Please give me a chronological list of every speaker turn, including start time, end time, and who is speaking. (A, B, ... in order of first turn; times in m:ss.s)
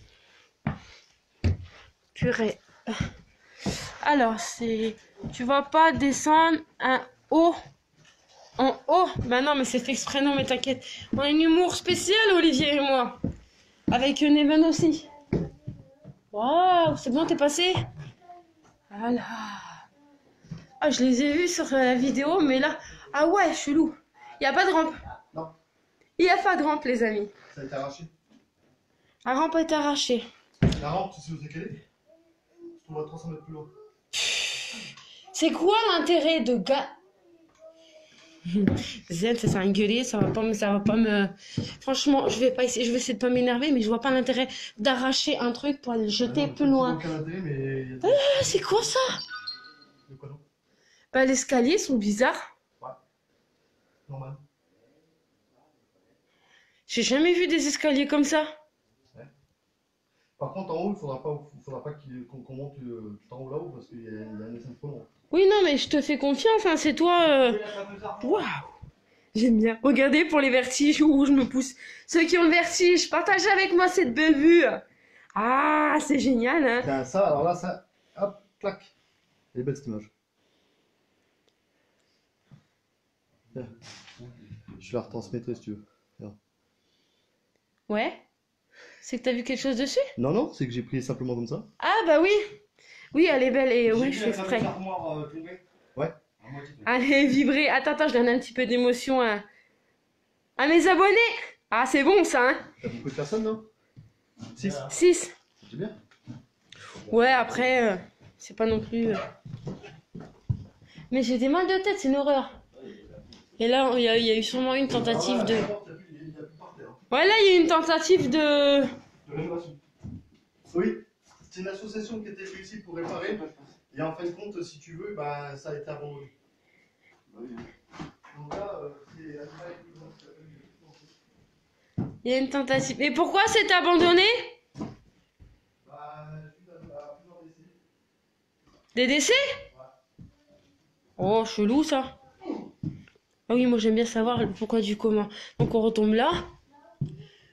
0:02.1-0:03.0 A
0:04.0-0:07.6 A
0:08.6-0:13.2 A
0:13.9-0:15.1 A
0:16.3-0:17.9 A
0:18.9-0:19.8 A
0:20.8-0:25.0 A
0:26.2-0:27.3 A
0:27.5-0:28.1 B
0:29.2-0:30.3 A
0:30.7-0:31.8 B
0:32.8-0:33.7 B
0:34.1-0:37.0 A
0:38.5-0:47.0 A
0:46.2-0:48.8 B
0:48.0-0:49.2 A
0:50.1-0:50.4 B
0:51.1-0:52.5 A
0:54.1-0:54.4 B
0:56.9-0:58.5 A
1:00.4-1:05.1 B
1:05.3-1:07.6 A
1:07.4-1:08.4 C
1:08.2-1:08.7 A
1:09.3-1:14.8 A
1:15.4-1:16.9 A
1:16.8-1:18.9 B
1:19.5-1:20.1 B
1:24.8-1:26.4 B
1:27.9-1:28.2 A
1:29.0-1:30.1 A
1:30.2-1:31.7 B
1:31.8-1:32.6 A
1:33.1-1:34.7 A
1:33.8-1:35.6 C
1:36.4-1:36.9 C
1:36.8-1:39.4 A
1:40.6-1:42.6 A
1:42.8-1:43.7 B
1:44.5-1:44.9 B
1:44.6-1:44.9 C
1:44.9-1:45.3 A
1:45.6-1:46.0 B
1:47.1-1:49.3 A
1:47.1-1:47.6 C
1:51.1-1:52.6 A
1:53.6-1:55.7 A
1:54.9-1:57.0 B
1:57.1-1:58.9 A
1:59.3-1:59.8 B
2:00.7-2:06.3 B
2:07.3-2:07.7 B
2:08.3-2:11.1 B
2:12.2-2:14.6 A
2:15.8-2:17.8 B
2:19.0-2:19.6 A
2:21.2-2:22.2 A
2:23.5-2:26.5 A